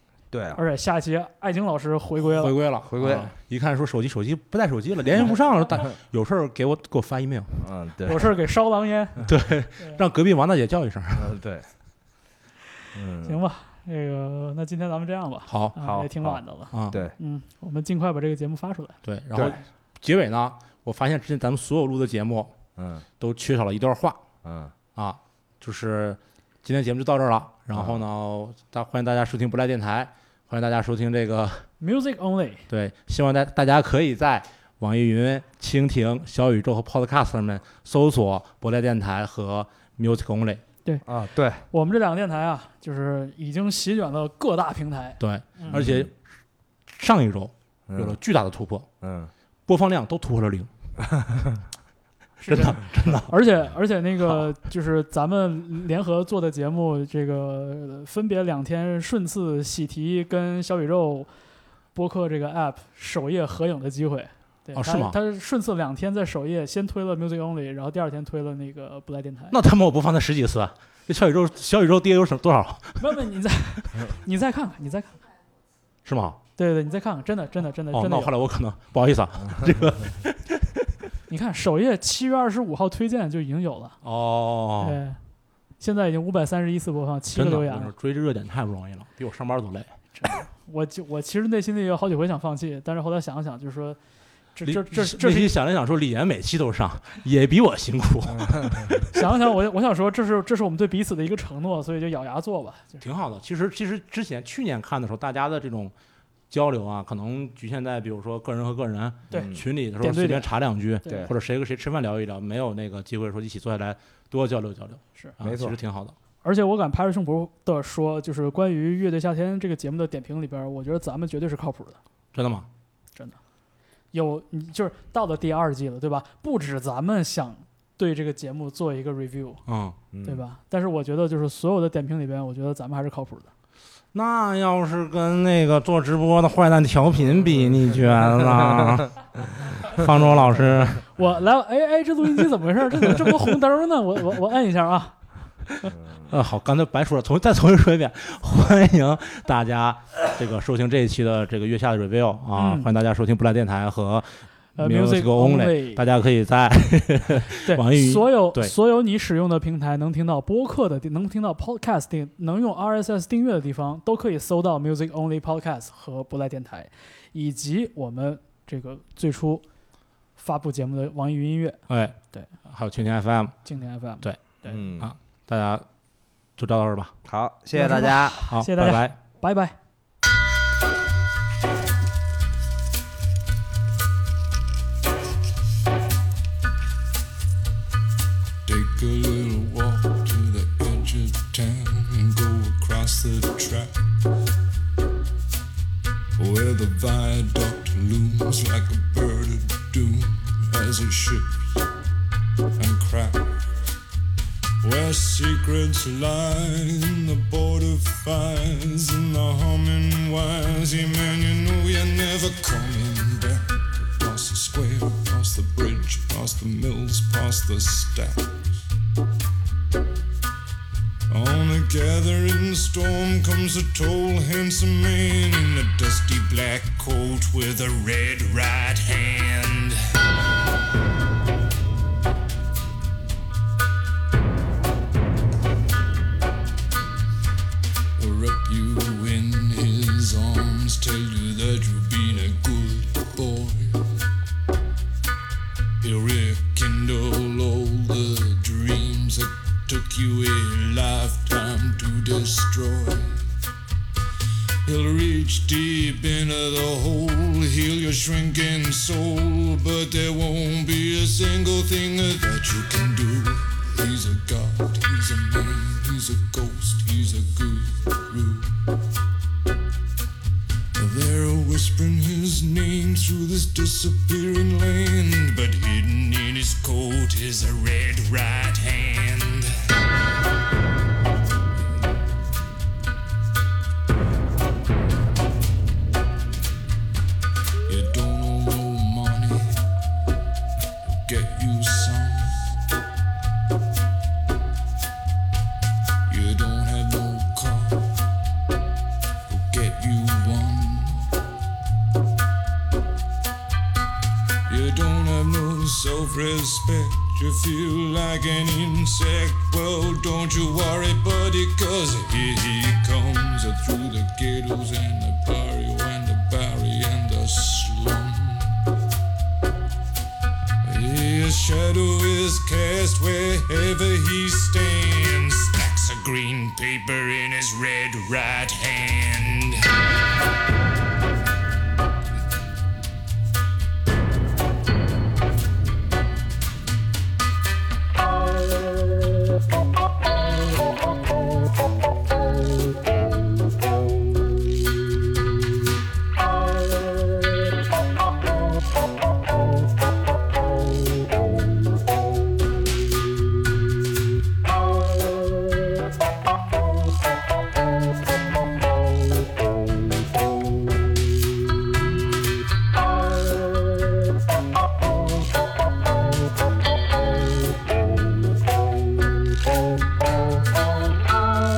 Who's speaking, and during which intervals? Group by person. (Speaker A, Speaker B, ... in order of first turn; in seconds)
Speaker A: 0.3-0.6, 2.9-3.3, 7.6-8.3, 11.2-11.7, 12.9-13.4, 15.8-17.1, 19.3-19.6, 22.8-23.1, 24.4-24.7, 27.7-28.0, 41.0-41.6, 45.6-46.1, 47.9-48.2, 49.0-49.3, 51.1-51.5, 98.4-99.0, 109.3-109.6, 111.0-111.3, 115.4-115.8, 130.1-130.4, 174.7-175.1, 177.2-178.2
Speaker B: 0.6-2.6, 8.0-9.2, 13.2-19.0, 31.8-32.6, 41.7-45.8, 52.4-61.3, 61.9-69.6, 73.0-75.3, 76.6-78.3, 81.3-84.0, 84.8-85.2, 85.8-87.9, 90.2-94.0, 94.5-95.5, 99.1-103.0, 109.3-111.3, 116.4-122.0, 124.1-129.6, 130.2-133.5, 141.1-145.2, 152.5-152.9, 154.8-156.0, 157.6-169.6, 170.4-172.5, 173.6-174.8, 177.7-179.7
Speaker C: 2.2-7.6, 9.2-11.3, 15.5-15.8, 16.7-17.0, 19.0-22.5, 23.2-24.2, 24.9-31.7, 32.7-40.6, 45.2-46.1, 46.9-48.9, 49.7-50.7, 52.4-53.3, 64.7-65.2, 69.5-73.2, 76.0-76.4, 77.9-80.9, 84.0-85.0, 87.3-90.0, 94.6-99.2, 103.0-105.9, 106.5-116.2, 122.3-122.7, 129.7-130.0, 134.1-141.1, 146.2-158.7, 171.9-173.5, 175.0-175.9, 176.6-177.1, 177.8-179.2
Speaker D: 188.6-194.1, 196.4-201.8, 202.8-203.6, 204.8-218.8, 221.3-230.0, 238.2-244.2, 246.0-253.5, 254.8-268.8, 270.9-279.7, 287.9-289.8, 291.0-292.6, 296.3-298.1, 299.5-301.3, 304.7-318.8, 320.8-329.9